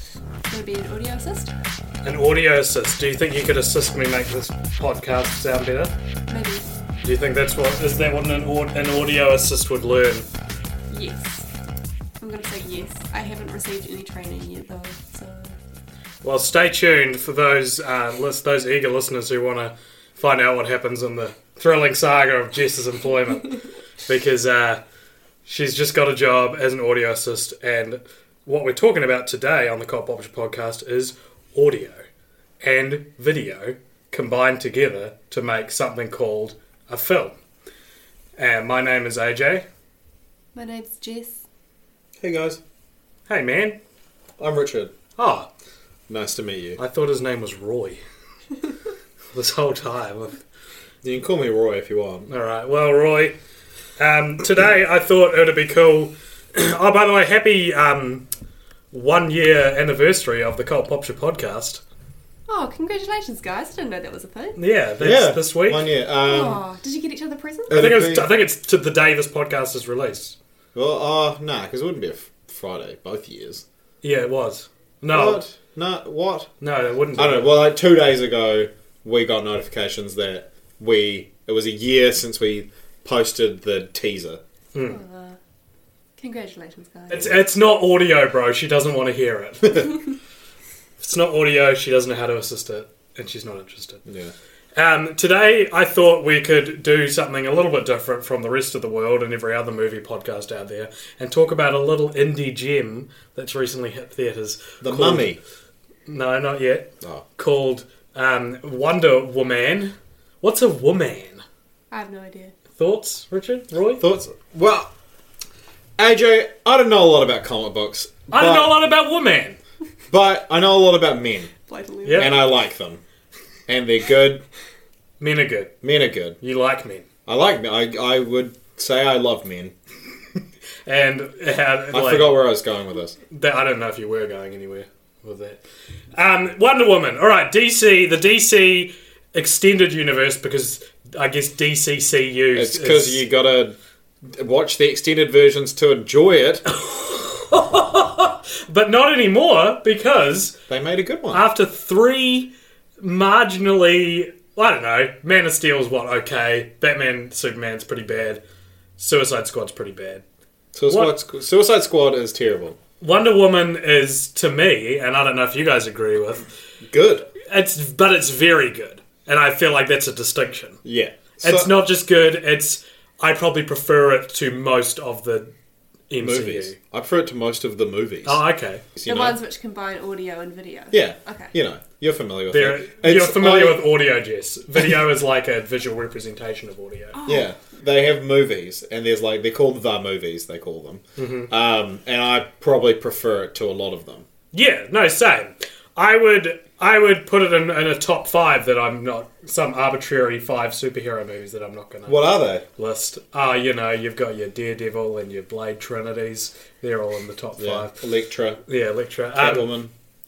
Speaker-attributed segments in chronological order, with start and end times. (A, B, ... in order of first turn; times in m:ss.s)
0:00.5-0:01.5 A
0:02.0-0:05.9 B
0:06.3-0:06.7 A
0:07.0-0:10.3 B
0:10.9-0:11.5 A
0:12.2-0:15.6 A
0:16.2-0:24.8 B
0:25.4-0:32.0 B
0:32.6-0:37.4 B
0:38.4-0:39.6 B
0:40.5-0:41.4 A
0:42.2-0:42.6 C
0:43.3-0:43.8 B
0:44.4-0:44.9 C
0:45.2-0:45.5 B
0:46.1-0:46.8 C
0:46.8-0:48.0 B
0:49.3-0:50.4 B
0:51.0-0:52.3 C
0:52.3-0:53.4 B
0:54.0-0:58.3 B
0:58.9-1:01.8 B
1:02.5-1:04.6 A
1:04.6-1:05.8 B
1:05.0-1:06.6 C
1:06.2-1:07.8 A
1:07.7-1:08.3 C
1:07.7-1:10.4 B
1:10.7-1:13.6 C
1:14.0-1:15.4 B
1:15.1-1:16.5 C
1:16.6-1:17.5 B
1:17.2-1:24.4 C
1:24.7-1:25.0 B
1:24.8-1:25.4 A
1:26.2-1:27.3 A
1:27.1-1:30.0 B
1:27.1-1:27.4 C
1:31.0-1:34.0 B
1:34.0-1:34.3 C
1:34.7-1:45.3 B
1:44.8-1:45.4 C
1:46.1-1:51.4 B
1:51.9-1:52.5 A
1:52.8-1:54.0 B
1:54.0-1:54.9 C
1:56.0-1:58.8 C
1:58.3-1:59.6 B
2:00.1-2:01.5 C
2:01.7-2:02.4 A
2:02.0-2:02.3 B
2:02.1-2:03.0 C
2:03.7-2:04.4 C
2:05.2-2:05.7 B
2:05.8-2:06.4 C
2:06.4-2:07.0 B
2:07.2-2:09.7 C
2:10.8-2:12.4 B
2:11.9-2:13.2 C
2:13.3-2:15.6 B
2:16.1-2:23.2 B
2:22.5-2:26.6 C
2:26.6-2:30.6 B
2:30.7-2:31.4 C
2:31.3-2:38.4 B
2:39.0-2:40.2 B
2:40.7-2:42.8 C
2:43.0-2:46.5 B
2:46.8-2:47.3 C
2:47.5-2:50.8 B
2:50.8-2:51.7 C
2:51.4-2:55.5 B
2:56.1-2:56.8 B
2:56.2-2:58.4 C
2:58.2-2:58.8 B
2:58.9-2:59.4 C
2:59.0-3:01.5 A
3:00.9-3:03.8 C
3:02.5-3:07.2 B
3:07.1-3:07.5 A
3:07.2-3:14.2 C
3:11.2-3:11.5 B
3:14.5-3:22.2 B
3:22.1-3:22.6 C
3:22.8-3:28.0 B
3:27.6-3:28.6 C
3:28.7-3:29.6 B
3:29.3-3:29.9 C